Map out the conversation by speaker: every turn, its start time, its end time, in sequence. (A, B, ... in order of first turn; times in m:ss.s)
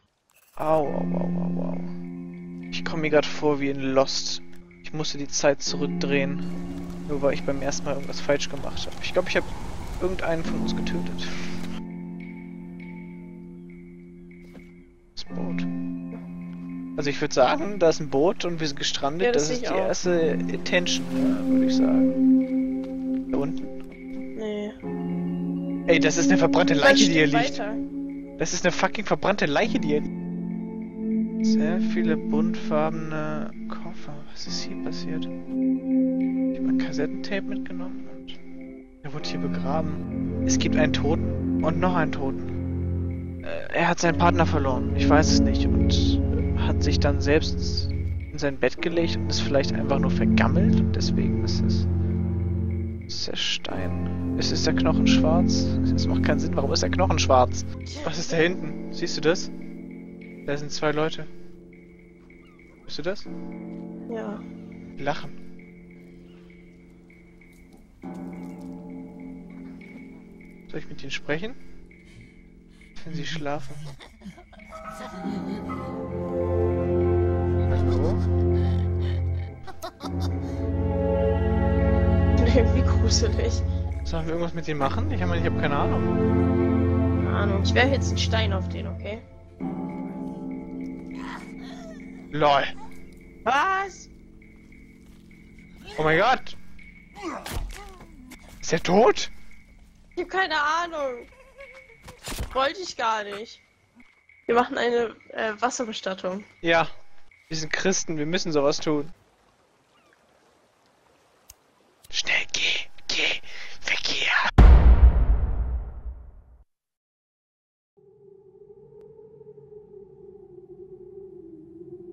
0:00.6-0:01.9 A
0:02.7-0:06.4 A
0:07.1-0:11.6 A
0:15.1-0:15.7 A
0:17.0-0:22.1 A
0:19.2-0:19.9 B
0:23.3-0:23.7 A
0:24.4-0:24.8 B
0:25.9-0:27.6 A
0:26.8-0:27.8 B
0:28.4-0:30.1 A
0:31.4-0:35.3 A
0:36.5-0:38.4 A
0:39.0-0:42.5 A
0:43.4-0:51.9 A
0:53.1-0:59.5 A
1:00.4-1:01.3 A
1:02.9-1:03.2 A
1:04.1-1:04.4 B
1:05.0-1:05.4 A
1:10.7-1:11.6 A
1:13.0-1:13.8 A
1:17.7-1:18.2 A
1:22.4-1:23.6 B
1:24.0-1:26.1 A
1:27.2-1:29.2 B
1:32.3-1:32.7 A
1:33.4-1:34.1 B
1:35.9-1:36.6 A
1:38.6-1:39.3 A
1:40.2-1:41.3 B
1:42.5-1:43.6 B
1:44.5-1:46.4 B
1:46.6-1:46.9 A
1:47.5-1:49.1 A
1:52.1-1:54.5 A